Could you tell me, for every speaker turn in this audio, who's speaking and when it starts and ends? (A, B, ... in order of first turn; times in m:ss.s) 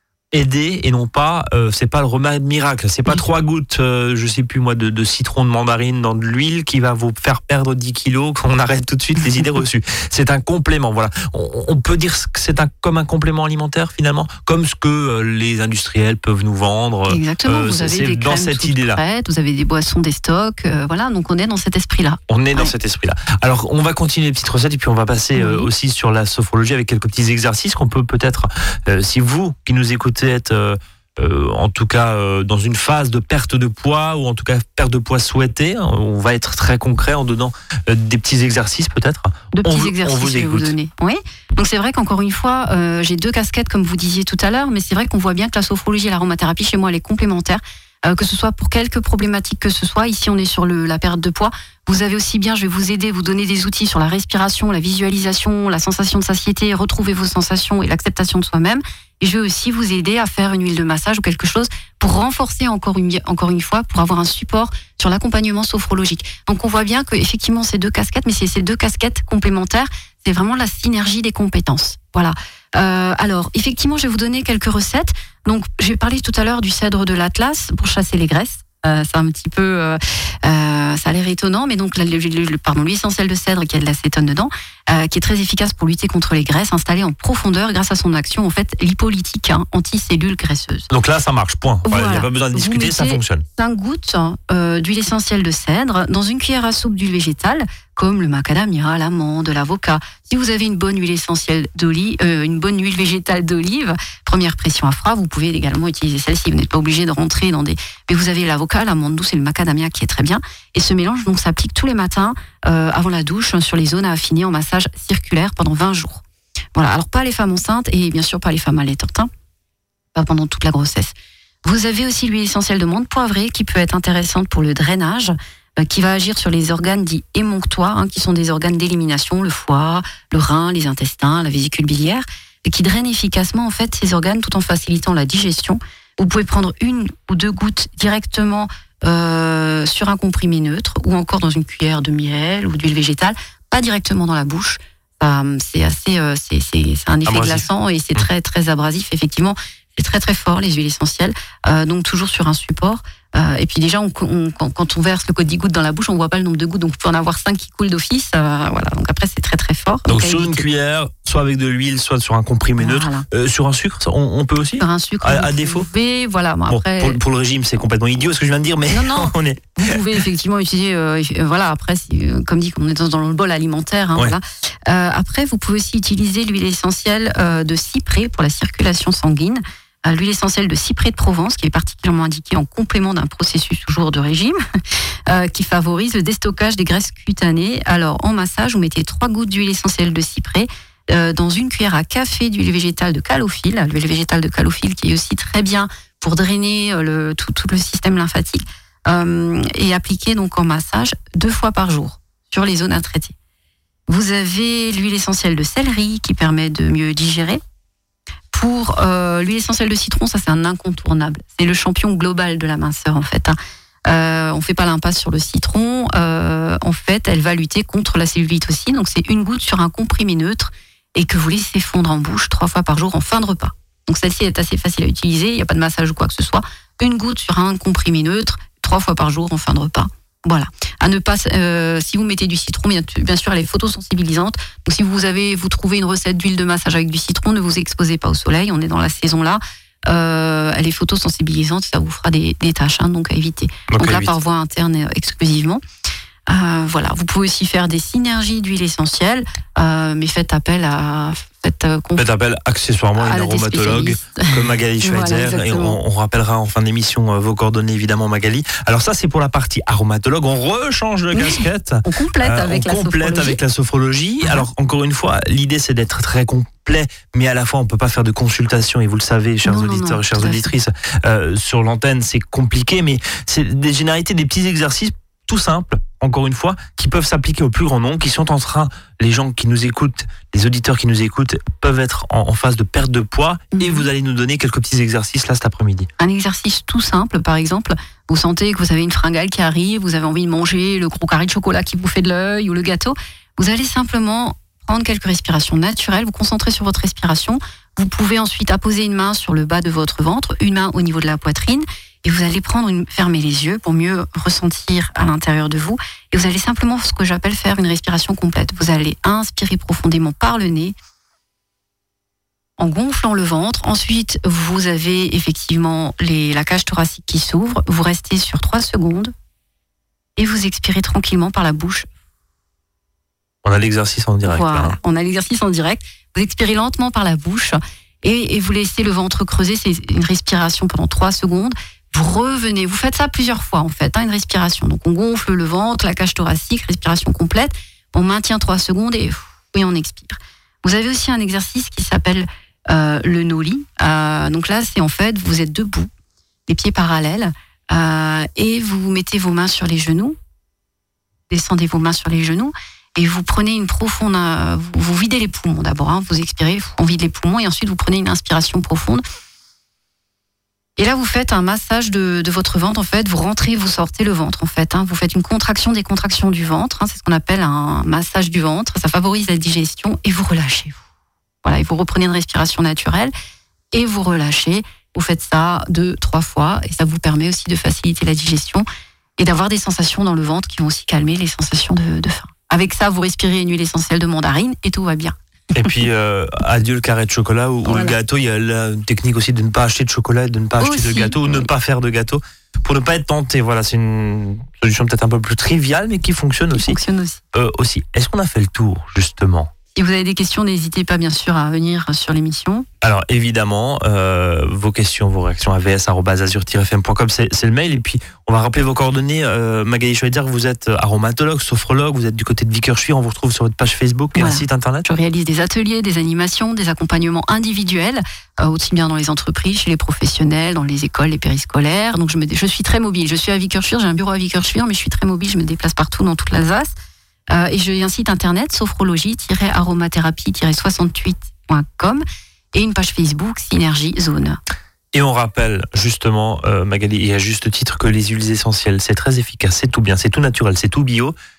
0:00.3-0:19.0 A
0:17.1-0:22.7 B
0:22.3-0:40.7 A
0:25.4-0:25.7 B
0:39.5-1:30.9 B
1:30.9-1:33.4 A
1:31.8-1:56.2 B
1:56.8-1:59.3 B
2:00.1-2:01.1 B
2:01.6-2:40.6 B
2:27.3-2:28.3 A
2:40.1-2:45.9 A
2:42.8-2:43.3 B
2:44.8-2:47.2 B
2:46.7-2:50.0 A
2:48.9-3:04.6 B
3:05.3-3:23.3 B
3:24.1-3:27.6 B
3:28.5-3:33.6 B
3:34.1-4:05.8 B
4:03.9-4:04.3 A
4:06.5-4:12.3 B
4:12.2-4:46.1 A
4:13.2-4:16.0 B
4:21.3-4:23.6 B
4:29.6-4:30.7 B
4:43.7-4:44.1 B
4:46.2-5:10.9 B
5:12.8-5:19.3 B
5:20.4-5:22.1 B
5:23.6-5:25.0 A
5:24.4-5:46.1 B
5:46.7-5:50.4 B
5:51.5-5:59.2 B
6:01.0-6:11.0 B
6:11.6-6:13.3 B
6:13.9-6:18.9 B
6:19.4-6:25.9 B
6:25.7-6:37.0 A
6:27.9-6:28.1 B
6:30.8-6:31.7 B
6:36.7-6:37.4 B
6:37.5-6:39.7 A
6:39.9-6:42.9 B
6:43.0-6:55.1 A
6:54.4-7:06.9 B
7:07.5-7:12.2 B
7:12.7-7:14.6 B
7:15.1-7:21.4 A